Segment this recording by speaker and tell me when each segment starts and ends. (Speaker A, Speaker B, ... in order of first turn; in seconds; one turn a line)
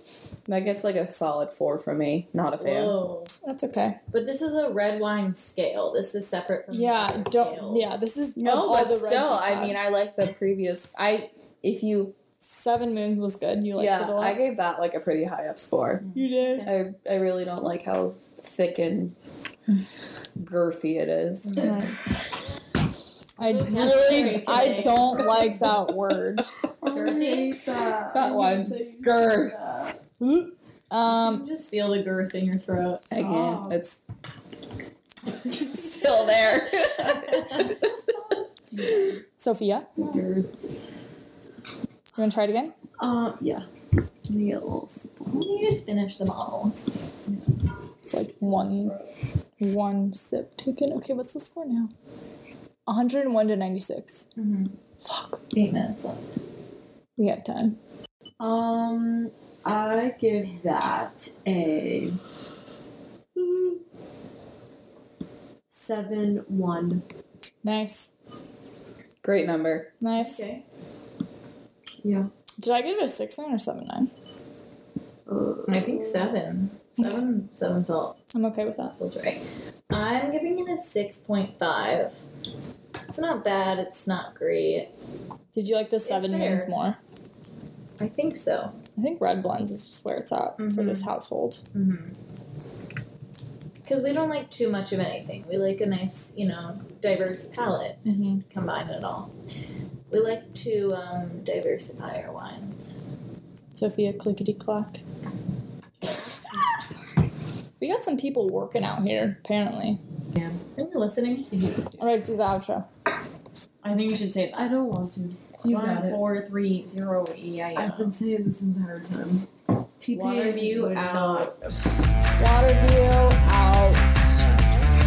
Speaker A: 0.5-3.0
Speaker B: 2.6-3.3
Speaker C: 3.4-4.0
Speaker B: 4.1-8.1
Speaker C: 6.7-9.8
Speaker A: 8.4-12.2
Speaker C: 12.4-14.4
Speaker A: 13.8-19.1
Speaker C: 16.1-16.7
Speaker A: 20.4-21.8
Speaker B: 21.5-21.9
Speaker C: 21.6-21.9
Speaker C: 23.4-26.5
Speaker B: 23.4-25.6
Speaker D: 26.8-30.0
Speaker B: 26.9-27.6
Speaker A: 28.1-29.6
Speaker C: 30.2-31.5
Speaker B: 31.0-33.1
Speaker D: 33.1-33.8
Speaker A: 33.1-34.0
Speaker A: 35.5-37.9
Speaker B: 37.0-37.6
Speaker D: 38.8-39.2
Speaker C: 39.4-39.9
Speaker D: 40.0-40.5
Speaker C: 42.2-42.7
Speaker D: 43.0-43.7
Speaker D: 44.3-45.5
Speaker B: 45.3-46.8
Speaker C: 48.1-49.0
Speaker C: 49.6-51.9
Speaker C: 52.9-54.3
Speaker B: 54.4-54.8
Speaker C: 55.0-55.4
Speaker B: 55.5-56.2
Speaker C: 57.2-57.8
Speaker D: 58.4-62.2
Speaker D: 63.4-63.7
Speaker D: 65.7-67.0
Speaker C: 67.6-68.1
Speaker A: 69.2-69.9
Speaker C: 70.0-70.4
Speaker B: 70.2-70.6
Speaker D: 72.0-72.3
Speaker C: 72.6-74.1
Speaker D: 75.3-76.3
Speaker B: 75.7-78.2
Speaker C: 78.3-79.0
Speaker B: 79.0-82.2
Speaker B: 83.1-84.9
Speaker C: 85.5-87.0
Speaker B: 85.9-86.7
Speaker B: 88.0-88.8
Speaker C: 89.0-91.6
Speaker B: 90.6-91.1
Speaker B: 91.7-92.2
Speaker B: 93.8-99.3
Speaker C: 98.0-98.4
Speaker B: 100.1-103.0
Speaker C: 103.7-105.0
Speaker C: 106.4-106.8
Speaker C: 107.8-110.0
Speaker B: 110.8-111.5
Speaker D: 111.5-112.0
Speaker C: 112.0-112.9
Speaker B: 113.8-114.7
Speaker D: 114.5-116.2
Speaker B: 115.7-118.2
Speaker D: 117.8-119.5
Speaker D: 120.0-121.6
Speaker B: 120.1-121.8
Speaker C: 122.4-124.4